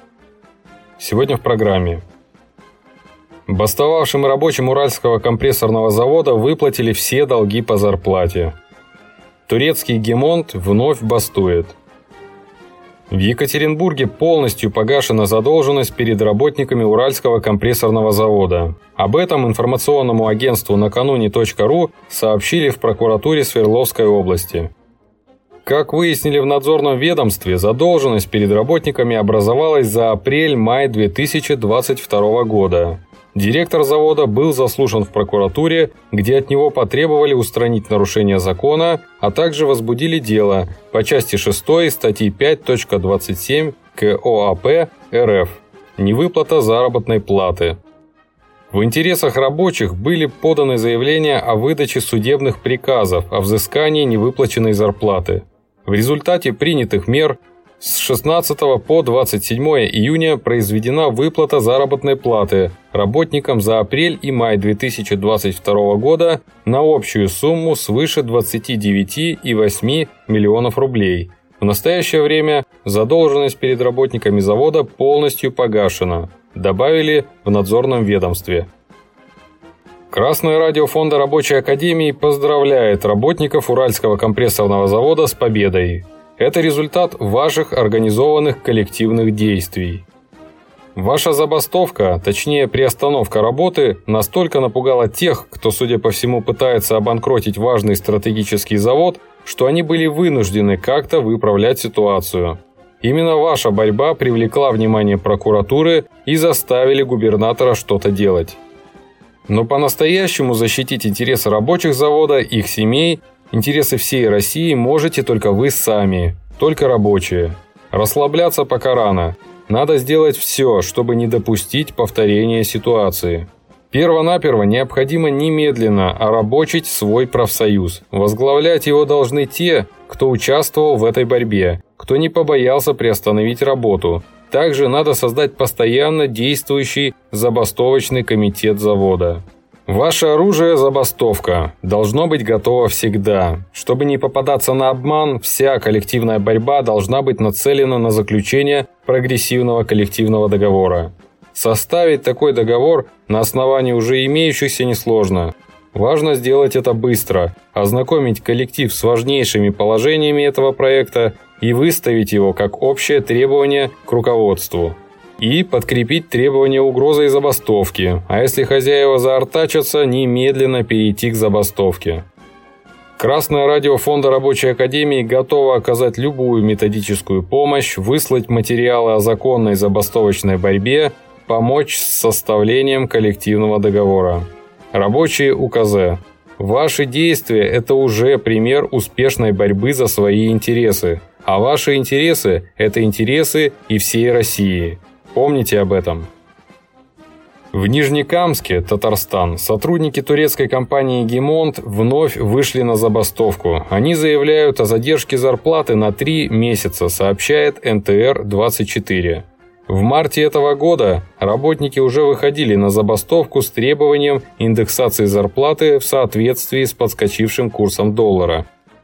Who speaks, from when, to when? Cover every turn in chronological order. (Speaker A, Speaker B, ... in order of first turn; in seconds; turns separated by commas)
Speaker A: 1.0-2.0, Speaker A: 3.5-8.6, Speaker A: 9.5-11.8, Speaker A: 13.1-24.7, Speaker A: 25.6-47.8, Speaker A: 48.7-78.7, Speaker A: 80.1-90.1, Speaker A: 91.0-108.6, Speaker A: 109.5-172.2, Speaker A: 173.2-196.3, Speaker A: 197.7-218.7